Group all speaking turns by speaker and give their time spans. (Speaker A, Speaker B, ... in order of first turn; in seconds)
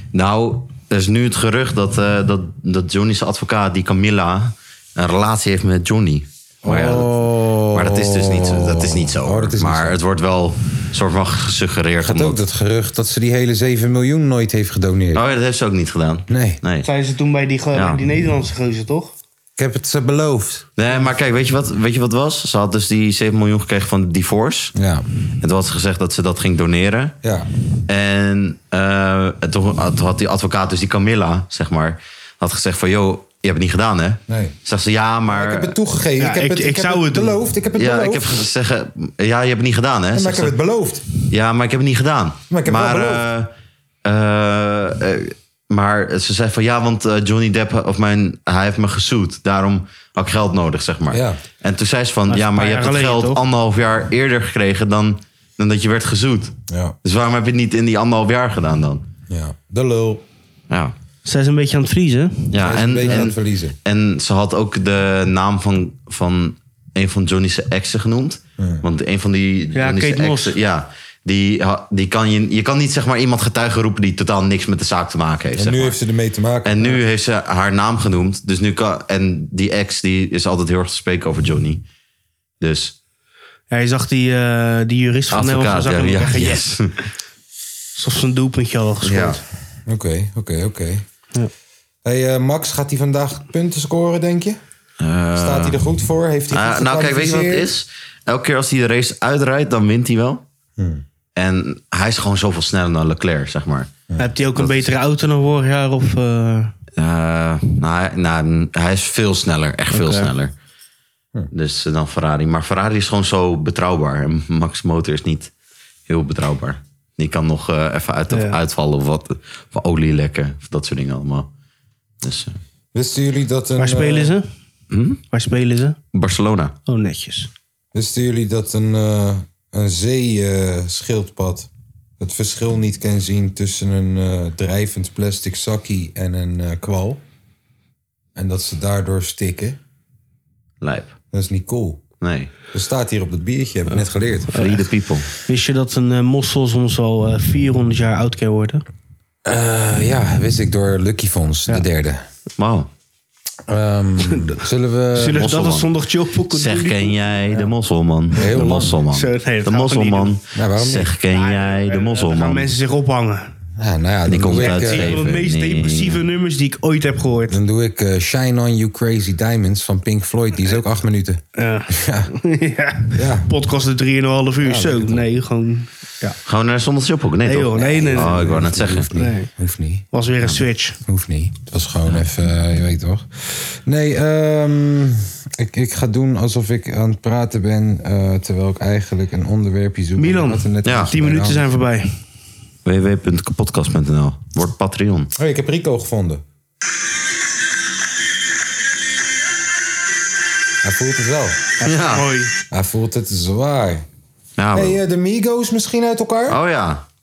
Speaker A: 0.1-12.4, 15.1-16.9, 17.7-18.0, 20.8-24.7, 25.4-27.1, 27.9-35.7, 37.8-40.5, 41.2-43.5, 44.0-59.0, 62.5-76.0, 76.6-81.8, 82.6-82.9, 85.3-87.0, 89.0-89.4, 95.0-95.8, 96.5-100.4, 101.3-103.9, 104.5-104.9, 107.0-110.5, 111.5-115.5, 116.1-121.5, 122.2-122.5, 124.9-125.2, 126.1-126.7, 140.8-141.1, 142.2-142.5, 144.5-145.3, 152.6-152.9, 155.3-155.9, 156.5-162.7, 164.3-166.2, 176.4-179.1, 190.8-191.1, 192.8-195.3, 201.8-202.4, 204.6-205.0, 206.5-207.0
Speaker B: 6.6-10.0, 12.0-15.2, 16.3-16.6, 19.6-20.6, 24.7-25.1, 27.2-27.5, 34.3-34.5, 35.3-38.4, 40.1-41.0, 42.5-43.2, 51.1-51.4, 56.7-57.0, 59.3-60.2, 62.6-63.8, 68.6-68.8, 75.5-77.0, 89.8-91.0, 92.0-94.6, 95.3-97.7, 100.8-101.0, 122.9-124.3, 127.9-137.2, 138.3-139.8, 141.3-142.0, 142.7-144.5, 149.4-152.2, 153.7-155.5, 158.3-159.0, 160.5-161.1, 163.8-165.2, 167.5-172.3, 173.1-173.5, 174.6-175.2, 178.1-180.1, 181.0-191.7, 195.3-196.4, 200.8-201.7, 202.7-204.1, 204.7-206.6
Speaker C: 16.8-19.1, 36.2-37.4, 52.3-53.4, 61.2-62.6, 69.7-70.5, 83.7-86.6, 88.0-89.4, 104.2-106.7, 109.9-110.3, 118.3-118.6, 123.8-124.5, 125.3-126.0, 126.9-127.5, 145.4-148.8, 154.2-154.6, 155.1-157.7, 159.1-160.3, 161.3-163.5, 164.5-167.6, 171.5-176.4, 177.4-178.6, 179.1-179.5, 180.1-181.0, 190.2-192.2, 201.8-202.5